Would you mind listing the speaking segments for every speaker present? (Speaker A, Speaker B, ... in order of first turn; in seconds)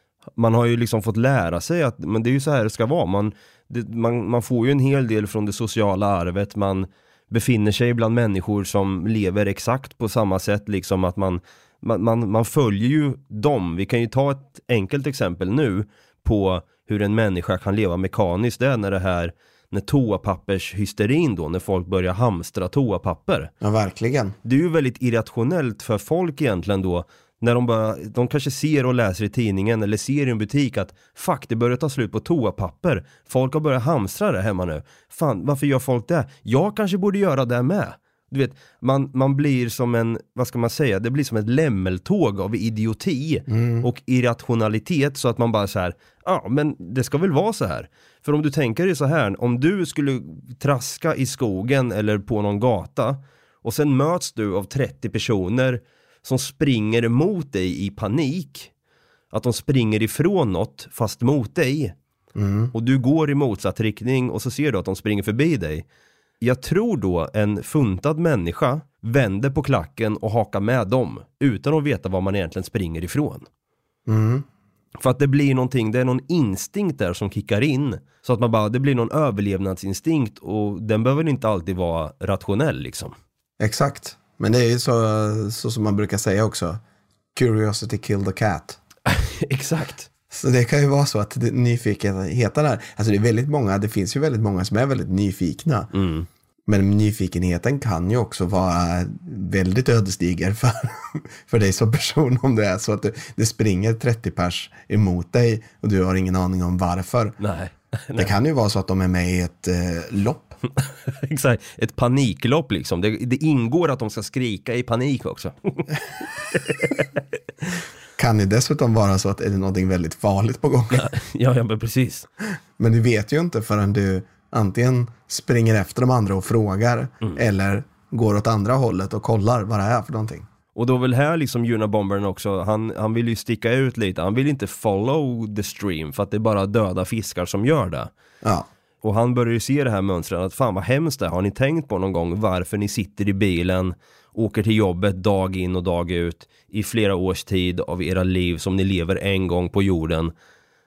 Speaker A: 0.4-23.5, 24.4-58.7, 59.3-61.9, 62.7-65.8, 66.4-73.5, 75.0-83.1, 89.1-90.1, 95.9-96.3, 107.4-108.3, 110.8-116.0, 116.7-116.9, 120.9-122.3, 130.7-138.1, 139.0-150.3
Speaker B: 23.6-24.4, 43.5-43.9, 62.4-62.7, 74.1-74.5, 83.6-86.8, 87.3-88.8, 90.3-95.9, 96.7-107.4, 108.2-110.6, 118.2-121.1, 122.8-130.5